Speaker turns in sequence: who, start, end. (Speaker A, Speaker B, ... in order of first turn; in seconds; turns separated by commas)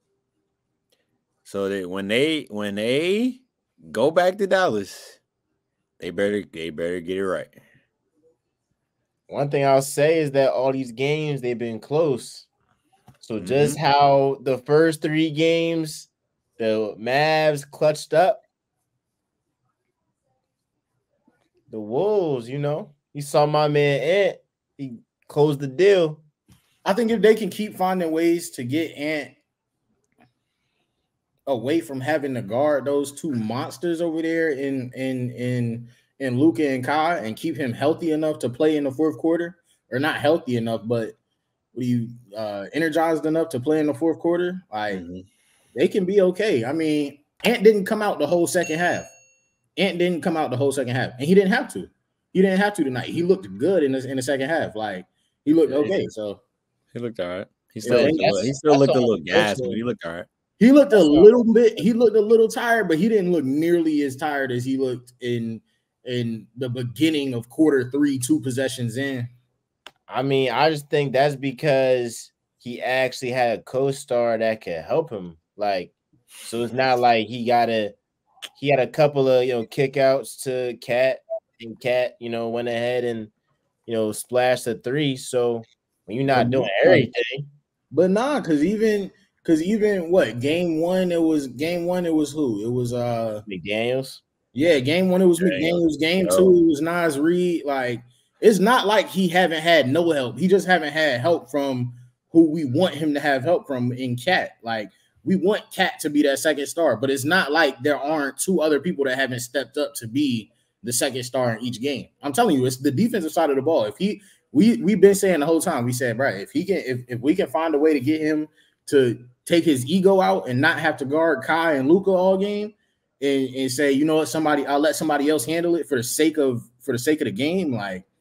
Speaker A: 1.4-5.2, Speaker A: 6.0-7.5, Speaker B: 9.3-12.5, Speaker B: 13.2-18.4, Speaker A: 13.4-13.8, Speaker B: 21.7-26.2, Speaker C: 26.8-29.3, Speaker C: 31.4-41.1, Speaker C: 41.7-45.0, Speaker A: 44.9-45.2, Speaker C: 45.7-49.1, Speaker C: 49.8-56.4, Speaker A: 55.7-56.0, Speaker A: 56.9-60.3, Speaker C: 57.8-58.4, Speaker B: 57.8-59.8, Speaker C: 60.6-69.3, Speaker B: 60.9-61.8, Speaker B: 70.1-78.0, Speaker B: 78.6-83.3, Speaker B: 83.8-87.5, Speaker C: 86.3-87.1, Speaker C: 87.9-93.4, Speaker B: 93.5-94.2, Speaker C: 94.5-128.1, Speaker A: 95.4-96.5